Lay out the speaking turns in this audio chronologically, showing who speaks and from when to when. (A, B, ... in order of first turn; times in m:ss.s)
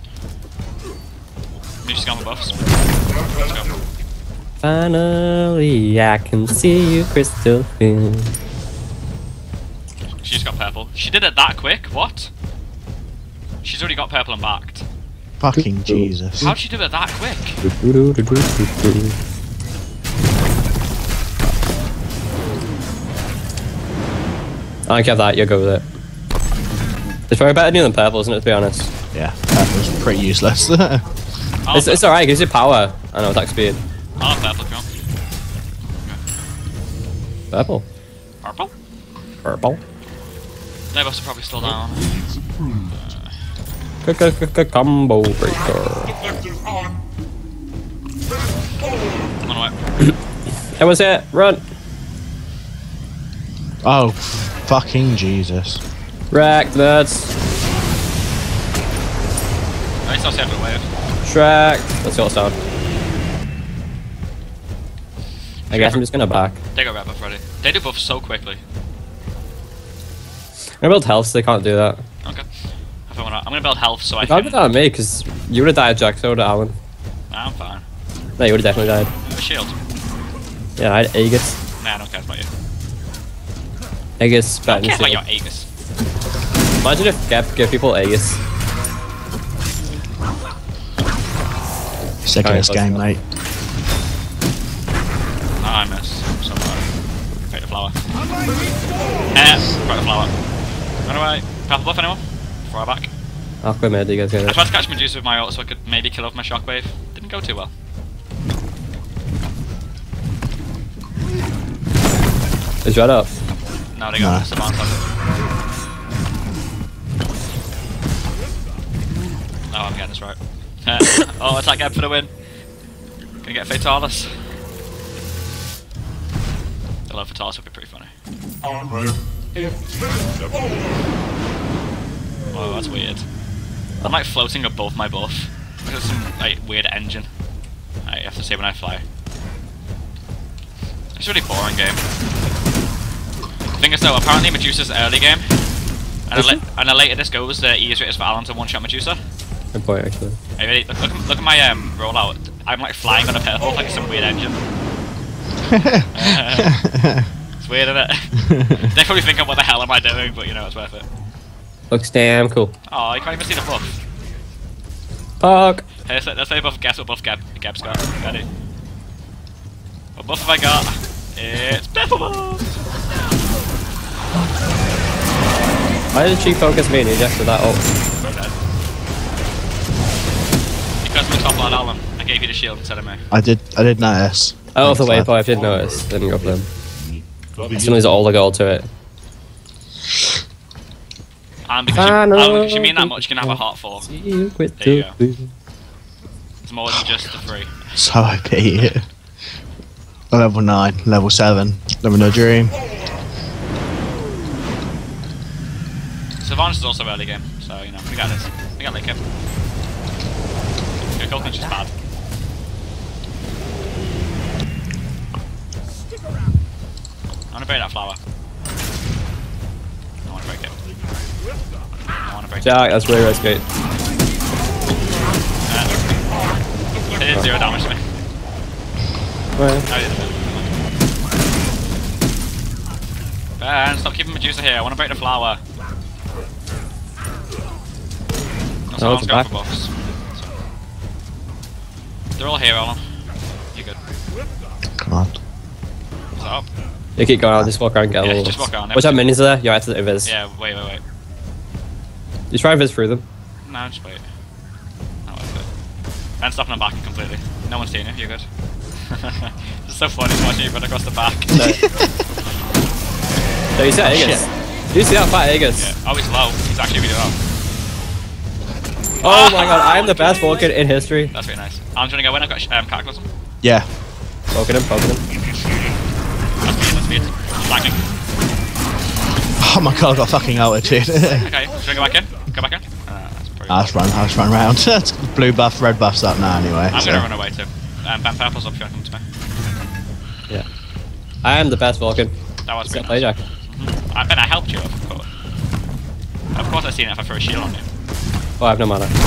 0:01.8-0:02.6 A
0:03.4-0:03.8 A
0:04.6-0:08.3 B
0:10.2-0:12.3 A
0:13.6-0:14.8 A
0:15.4-0:16.5 C
0:15.6-0:16.5 B
0:16.4-0:17.6 A
0:17.6-0:19.2 B
0:24.9-0:25.8 B
0:27.3-0:28.9 B
0:29.1-0:31.0 C
0:31.6-0:32.1 A
0:31.7-0:33.8 B
0:34.2-0:34.9 A
0:35.9-0:36.2 A
0:37.5-0:37.9 B
0:38.4-0:38.7 A
0:39.4-0:39.8 B
0:40.9-0:42.3 A
0:42.9-0:43.3 A
0:44.0-0:46.2 B
0:49.4-0:49.8 A
0:50.8-0:51.6 B
0:53.8-0:55.8 C
0:56.3-0:57.3 B
1:00.0-1:00.9 A
1:01.2-1:02.6 B
1:05.7-1:06.0 A
1:05.7-1:06.6 B
1:06.7-1:08.6 A
1:10.8-1:12.0 B
1:13.1-1:14.7 A
1:14.3-1:16.8 B
1:17.3-1:17.8 A
1:18.4-1:19.1 B
1:19.2-1:19.8 A
1:20.8-1:21.6 B
1:21.8-1:22.5 A
1:24.2-1:25.2 B
1:24.7-1:25.7 A
1:26.8-1:28.4 B
1:32.2-1:33.2 C
1:32.4-1:33.0 B
1:35.6-1:36.9 A
1:37.5-1:38.0 A
1:39.3-1:40.3 A
1:41.1-1:43.1 A
1:43.6-1:44.6 B
1:44.4-1:47.7 A
1:52.8-1:53.3 B
1:53.9-1:55.1 A
1:54.2-1:54.5 C
1:59.7-2:02.3 A
2:03.4-2:04.6 A
2:07.1-2:08.1 A
2:12.5-2:13.2 A
2:14.0-2:17.3 A
2:18.1-2:19.0 A
2:21.2-2:22.0 A
2:23.8-2:25.5 A
2:26.3-2:29.2 A
2:29.7-2:30.4 B
2:30.6-2:34.6 A
2:35.7-2:37.3 C
2:36.1-2:36.8 A
2:37.6-2:41.1 A
2:38.4-2:38.9 C
2:41.9-2:42.7 B
2:42.9-2:44.0 A
2:45.4-2:45.9 B
2:46.0-2:48.5 A
2:50.2-2:52.7 A
2:56.1-2:57.8 B
2:58.2-2:58.6 A
3:01.0-3:03.2 A
3:03.3-3:05.3 C
3:04.8-3:06.7 B
3:07.7-3:08.9 B
3:11.7-3:14.1 A
3:11.9-3:15.5 B
3:14.8-3:15.2 A
3:16.6-3:17.8 A
3:17.9-3:19.0 C
3:20.3-3:22.8 C
3:26.4-3:29.2 A
3:31.1-3:31.9 A
3:37.5-3:38.2 A
3:40.2-3:40.8 A
3:42.2-3:43.0 A
3:42.6-3:43.6 B
3:45.7-3:46.0 A
3:47.1-3:48.0 A
3:49.6-3:49.9 B
3:49.9-3:50.7 A
3:53.6-3:55.6 A
3:58.9-4:00.5 A
3:59.0-3:59.5 B
4:02.4-4:03.0 A
4:05.0-4:05.4 C
4:06.4-4:06.7 A
4:07.2-4:10.3 B
4:08.2-4:09.2 A
4:10.2-4:11.0 A
4:12.5-4:13.2 B
4:13.6-4:14.2 A
4:15.2-4:15.7 A
4:16.4-4:18.5 A
4:19.1-4:21.8 A
4:21.5-4:21.8 B
4:21.6-4:22.0 C
4:23.8-4:25.9 B
4:24.0-4:24.5 C
4:25.8-4:27.4 A
4:29.2-4:30.7 A
4:29.2-4:31.3 B
4:31.3-4:33.3 A
4:34.5-4:35.2 B
4:36.6-4:38.0 A
4:39.6-4:41.5 C
4:41.3-4:44.1 A
4:43.7-4:47.3 C
4:46.9-4:49.2 A
4:51.4-4:52.3 B
4:52.6-4:55.3 A
4:52.8-4:53.4 B
4:56.6-4:57.9 A
4:58.6-4:59.1 B